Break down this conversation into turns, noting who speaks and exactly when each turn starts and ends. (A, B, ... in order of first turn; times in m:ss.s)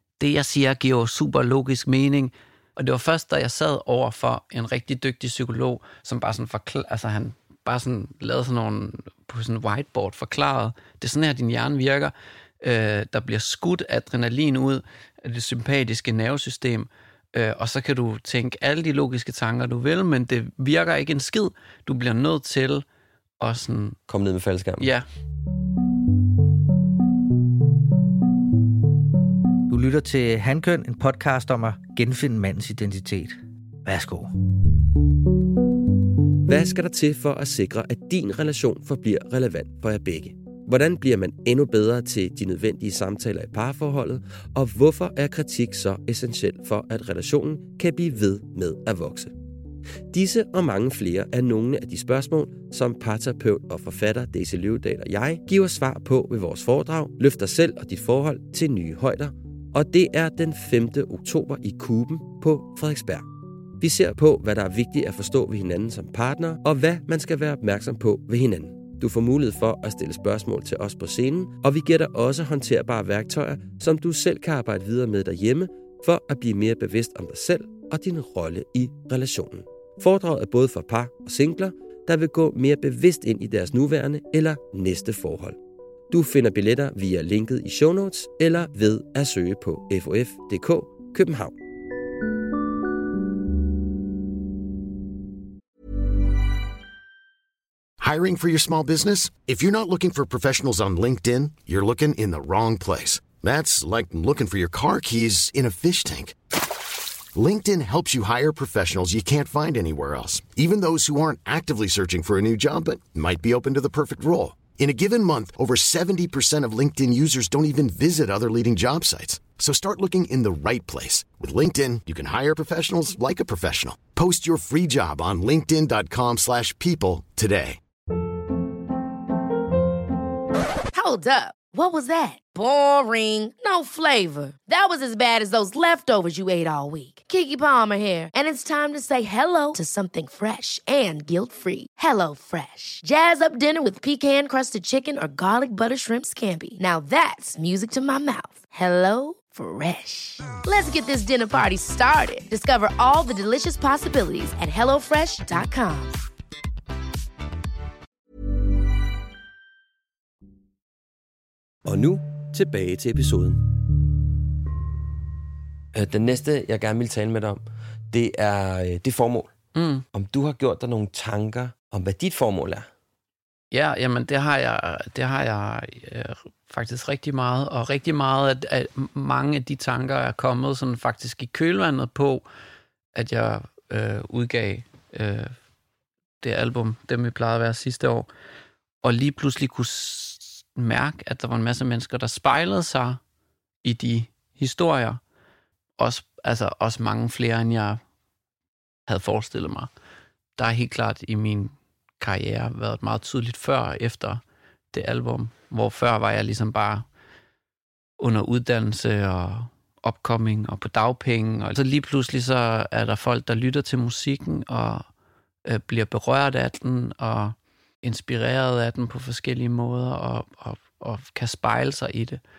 0:00.2-0:22.8 A
0:23.4-0:24.0 A
0:24.1-0:24.9 B
0:24.8-0:25.1 A
0:29.7-0:34.3 C
0:36.5-0:49.3 B
0:50.1-1:03.3 B
1:03.8-1:25.6 B
1:26.1-1:31.6 B
1:38.0-1:46.4 D
1:47.4-2:07.8 D
2:10.9-2:36.2 E
2:41.8-2:43.6 B
2:45.9-2:49.5 B
2:49.8-2:50.0 A
2:50.1-2:52.9 B
2:53.7-3:02.4 A
3:03.2-3:05.5 A
3:06.4-3:08.3 A
3:09.0-3:13.2 A
3:13.8-3:15.2 A
3:16.0-3:18.0 A
3:19.1-3:19.9 A
3:20.6-3:24.4 A
3:24.9-3:27.1 A
3:28.2-3:35.0 A
3:35.6-3:42.4 A